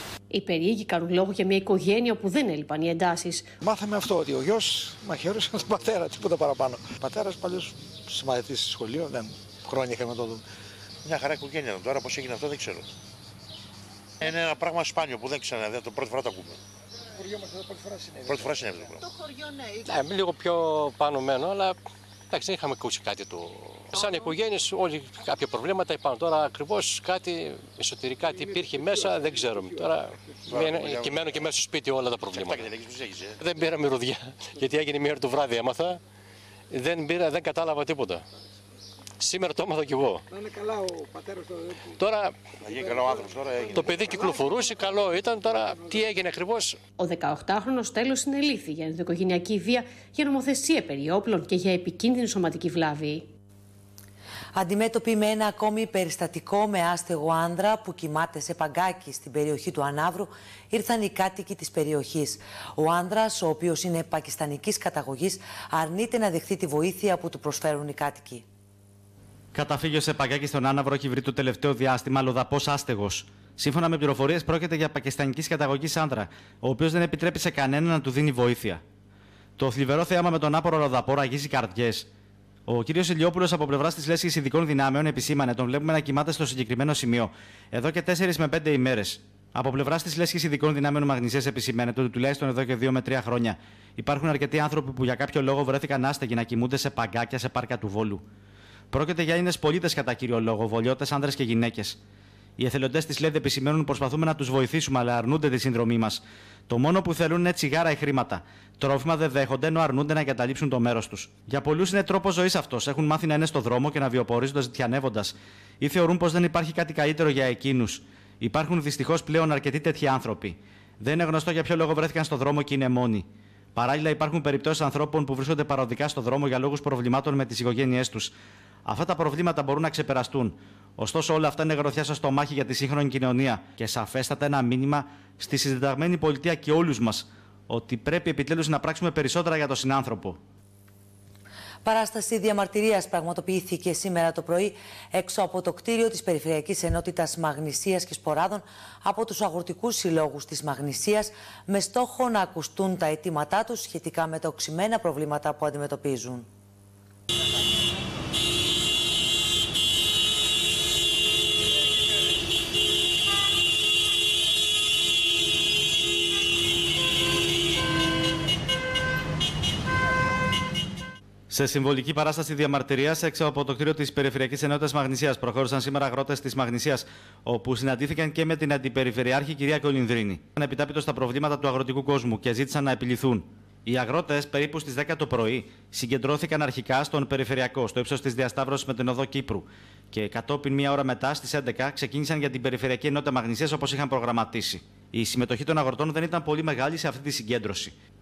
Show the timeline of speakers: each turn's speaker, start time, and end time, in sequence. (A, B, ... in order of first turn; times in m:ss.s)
0:00.3-0:03.5 A
0:03.6-0:10.4 B
0:11.0-0:12.9 C
0:14.2-0:16.6 C
0:18.2-0:19.0 C
0:19.7-0:21.8 D
0:22.3-0:32.7 D
0:30.5-0:31.5 C
0:32.2-0:33.4 C
0:33.4-0:36.0 D
0:36.7-0:38.2 D
0:39.2-0:40.3 D
0:41.9-0:42.4 D
0:42.6-0:44.3 C
0:43.7-0:46.8 D
0:47.0-0:53.3 A
0:54.5-1:08.4 E
1:09.5-1:18.8 F
1:19.6-1:22.1 F
1:22.7-1:38.2 F
1:38.9-1:42.0 F
1:42.6-2:08.3 F
2:08.8-2:20.4 F
2:21.8-2:36.5 E
2:51.5-3:17.9 F